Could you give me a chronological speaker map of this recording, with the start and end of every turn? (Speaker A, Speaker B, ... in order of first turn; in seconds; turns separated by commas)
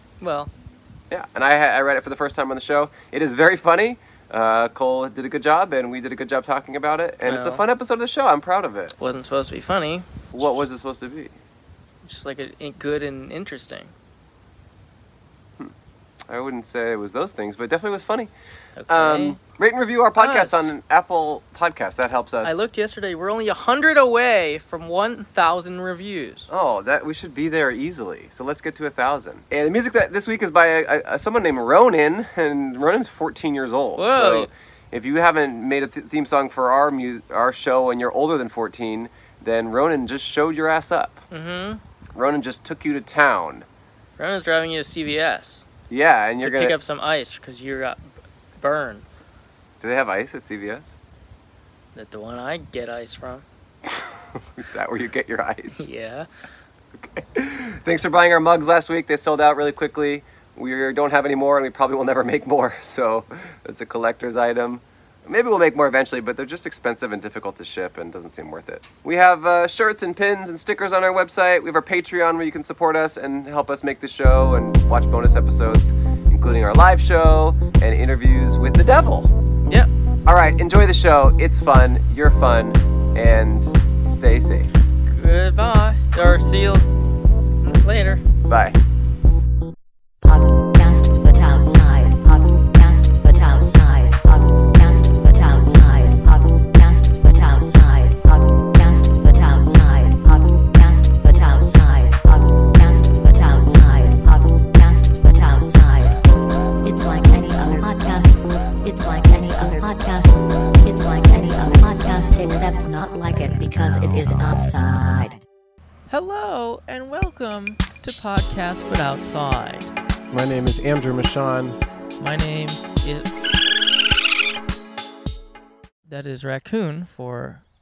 Speaker A: 0.2-0.5, Speaker B: 1.1-8.9, Speaker A: 7.2-7.6, Speaker A: 9.0-10.6, Speaker B: 10.3-11.3, Speaker A: 12.0-13.9, Speaker B: 16.3-18.3, Speaker A: 18.8-19.4, Speaker B: 18.9-22.6, Speaker A: 20.1-20.7, Speaker A: 22.4-26.5, Speaker B: 26.5-41.2, Speaker A: 33.9-34.5, Speaker A: 41.3-41.8, Speaker B: 42.1-43.7, Speaker A: 44.2-45.6, Speaker B: 45.9-46.8, Speaker A: 46.4-49.0, Speaker B: 49.8-50.9, Speaker A: 51.9-53.4, Speaker B: 53.9-55.9, Speaker A: 55.7-56.3, Speaker B: 57.0-79.3, Speaker B: 80.2-84.7, Speaker A: 85.1-86.9, Speaker A: 87.6-88.2, Speaker B: 88.5-88.8, Speaker C: 90.2-106.2, Speaker C: 106.8-115.4, Speaker A: 116.1-119.9, Speaker B: 120.3-121.8, Speaker A: 122.2-123.3, Speaker A: 126.1-127.6